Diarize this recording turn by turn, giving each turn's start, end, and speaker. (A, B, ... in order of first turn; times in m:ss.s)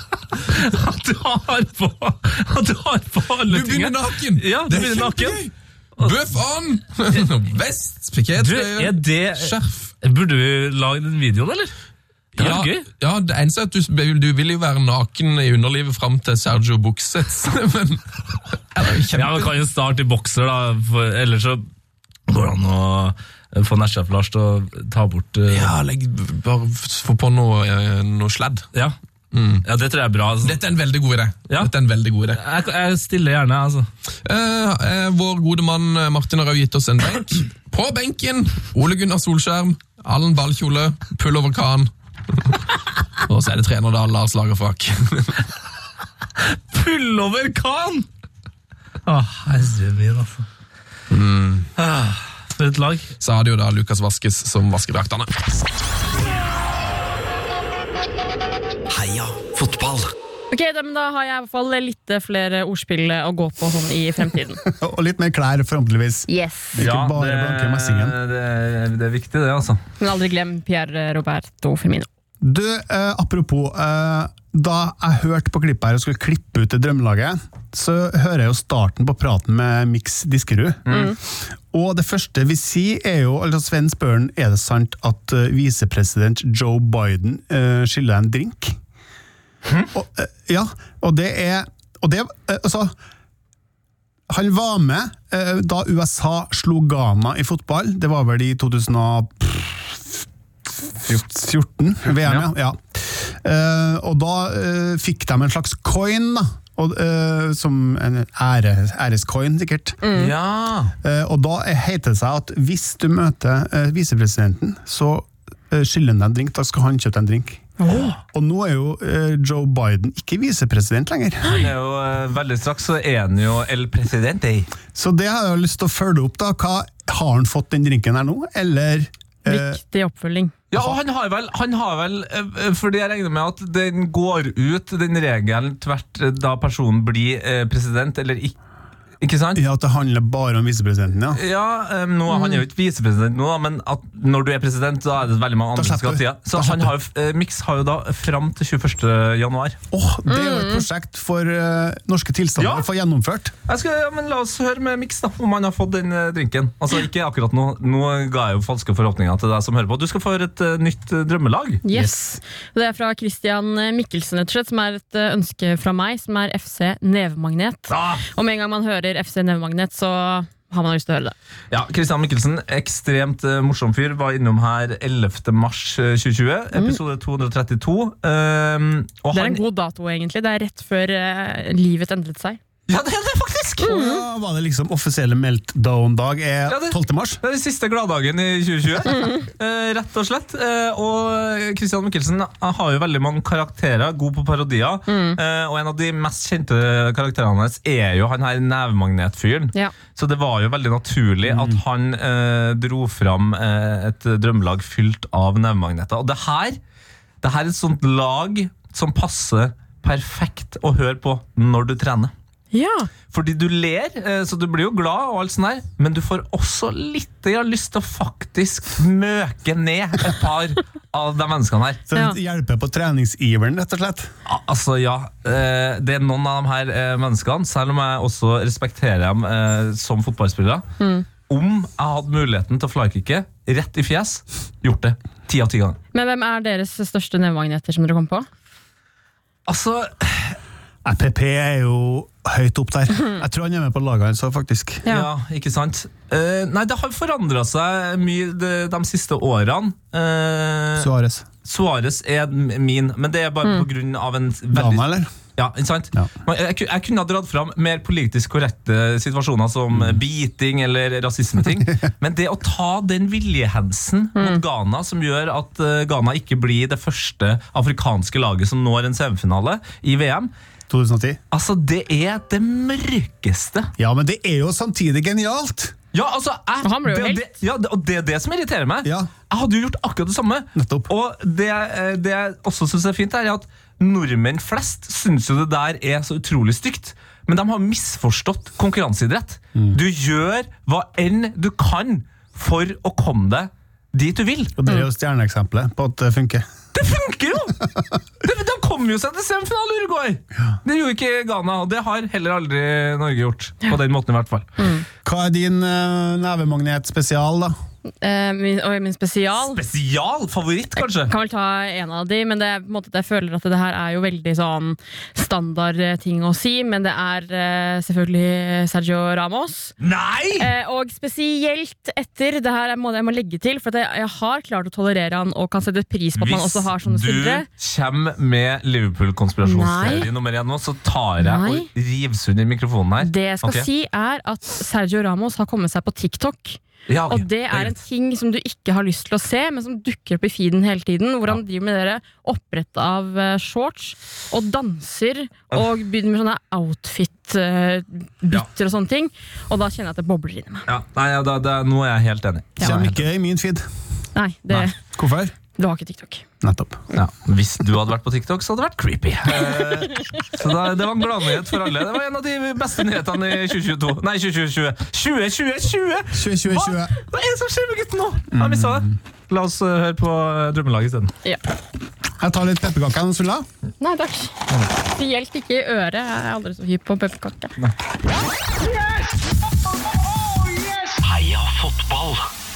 0:00.4-0:05.4 A
0:03.5-0:09.9 B
0:08.4-0:11.7 A
0:12.4-0:19.5 B
0:12.4-0:12.9 A
0:19.1-0:21.6 A
0:22.3-0:25.7 A
0:25.5-0:28.7 B
0:29.3-0:29.6 B
0:29.6-0:30.6 A
0:30.4-0:32.4 B
0:32.3-0:33.9 A
0:34.2-0:42.6 B
0:43.3-0:45.4 B
0:46.7-0:48.1 A
0:49.1-0:50.5 A
0:51.1-0:51.7 B
0:51.8-0:53.1 A
0:53.2-0:55.3 B
0:58.9-1:00.1 C
1:00.5-1:04.6 D
1:04.6-1:08.2 E
1:06.3-1:06.8 D
1:06.8-1:09.8 A
1:10.0-1:12.1 D
1:12.4-1:21.2 E
1:20.9-1:21.1 A
1:20.9-1:21.2 D
1:21.7-1:28.8 E
1:29.9-1:32.9 E
1:34.3-1:40.2 E
1:40.8-1:50.0 E
1:42.2-1:42.5 A
1:50.0-1:50.3 D
1:50.1-1:50.9 A
1:51.0-1:57.7 E
1:57.8-1:58.2 D
1:58.3-2:01.7 E
2:01.5-2:04.7 A
2:04.9-2:09.8 E
2:09.5-2:10.5 D
2:10.7-2:18.6 A
2:19.2-2:19.6 A
2:19.6-2:21.4 E
2:21.3-2:29.8 A
2:22.3-2:22.6 D
2:25.8-2:27.0 E
2:29.9-2:33.5 E
2:30.3-2:30.9 D
2:32.6-2:32.9 A
2:33.7-2:41.8 A
2:41.8-2:51.4 D
2:47.9-2:48.2 A
2:51.7-2:59.6 A
2:59.3-3:02.6 D
3:02.9-3:03.9 A
3:03.8-3:07.4 E
3:03.8-3:04.2 D
3:06.7-3:26.8 A
3:15.1-3:15.4 D
3:21.5-3:21.8 E
3:27.4-3:32.3 A
3:32.7-3:33.1 D
3:33.3-3:42.0 A
3:42.1-3:44.3 E
3:42.1-3:42.4 D
3:44.5-3:50.8 A
3:51.0-3:51.3 D
3:51.5-3:56.0 A
3:56.1-3:58.5 D
3:59.7-4:00.6 A
4:01.0-4:05.1 E
4:05.1-4:11.1 A
4:11.0-4:11.5 E
4:11.6-4:30.5 A
4:14.7-4:15.3 E
4:19.9-4:20.2 E
4:24.4-4:24.6 D
4:30.9-4:31.4 E
4:31.5-4:33.9 A
4:34.0-4:35.9 E
4:36.1-4:54.8 A
4:36.8-4:37.4 D
4:39.0-4:39.3 E
4:40.8-4:41.1 E
4:49.8-4:50.0 E
4:54.8-4:56.7 E
4:56.9-4:57.9 A
4:58.4-5:04.7 A
5:04.8-5:05.1 D
5:05.2-5:07.7 E
5:08.2-5:09.8 D
5:09.6-5:11.3 A
5:11.0-5:20.0 D
5:20.0-5:20.7 A
5:20.6-5:27.7 D
5:26.4-5:33.9 A
5:29.6-5:30.3 D
5:31.4-5:31.9 D
5:33.2-5:50.9 D
5:37.1-5:37.9 A
5:50.9-5:53.3 A
5:52.8-5:53.8 E
5:54.4-5:55.0 D
5:54.8-5:55.5 E
5:55.8-5:56.4 D
5:56.6-5:57.1 E
5:57.1-6:11.3 A
6:06.3-6:07.1 E
6:08.5-6:09.2 E
6:12.4-6:13.7 E
6:14.0-6:17.7 D
6:21.1-6:22.5 C